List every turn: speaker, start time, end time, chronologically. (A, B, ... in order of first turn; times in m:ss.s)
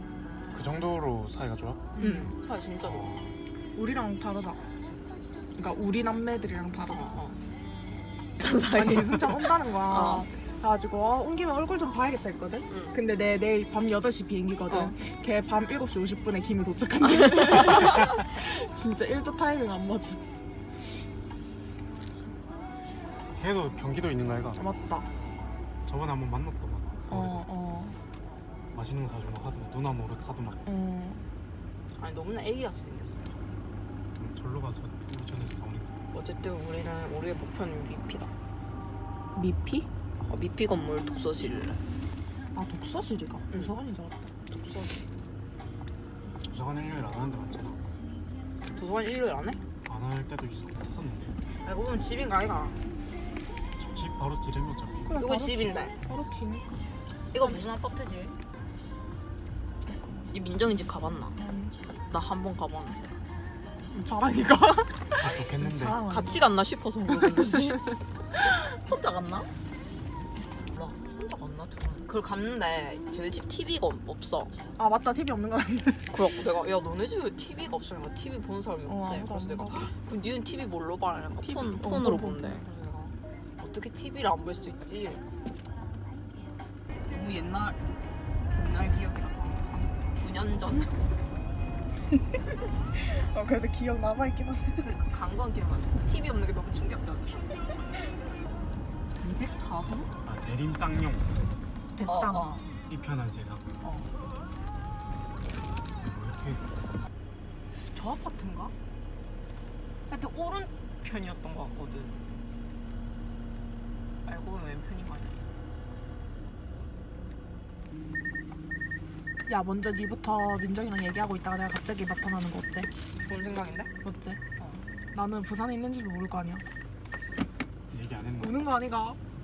0:00.5-0:01.8 A
0:02.0-0:02.3 B
0:02.0-0:03.2 C
0:02.8-0:03.4 A
0:03.8-0:04.6 B
0:05.6-0:07.2 B
0:06.9-0:07.4 C
0:08.4-0:10.3 C
0:08.7-0:20.2 B
0:12.7-0:12.9 C
0:14.7-0:14.9 C
0:23.3-0:24.6 A
0:24.6-0:25.0 B
0:25.8-0:27.5 A
0:27.1-0:28.0 B
0:28.7-0:30.6 A
0:30.6-0:31.2 B
0:31.9-0:33.3 C
0:34.2-0:35.9 A
0:36.1-0:38.3 C
0:39.3-0:39.9 B
0:40.2-0:41.8 C
0:42.5-0:44.3 B
0:44.5-0:45.0 C
0:46.4-0:47.8 A
0:48.7-0:49.6 C
0:49.8-0:51.4 A
0:51.6-0:52.8 C
0:53.8-0:55.2 A
0:55.0-0:56.7 B
0:55.2-0:55.9 C
0:57.3-0:58.4 C
1:00.3-1:01.4 C
1:01.4-1:01.8 B
1:02.1-1:03.1 C
1:03.9-1:05.0 B
1:05.2-1:06.0 A
1:05.2-1:05.5 C
1:05.6-1:06.4 B
1:06.1-1:07.8 C
1:08.7-1:09.5 C
1:10.7-1:14.6 C
1:14.8-1:16.1 B
1:16.1-1:25.2 C
1:18.9-1:19.9 B
1:21.4-1:22.6 B
1:27.1-1:27.8 C
1:28.5-1:31.1 C
1:32.9-1:34.9 B
1:34.8-1:37.6 C
1:39.2-1:40.1 C
1:40.2-1:41.4 A
1:41.9-1:42.6 B
1:42.0-1:42.7 C
1:42.9-1:43.6 A
1:43.8-1:44.1 C
1:46.0-1:46.6 A
1:48.2-1:48.7 C
1:50.1-1:52.2 C
1:54.2-1:55.4 C
1:59.4-2:02.9 B
2:03.2-2:03.9 C
2:04.0-2:04.4 B
2:04.6-2:04.8 C
2:05.1-2:06.6 B
2:07.9-2:08.7 A
2:08.4-2:09.2 B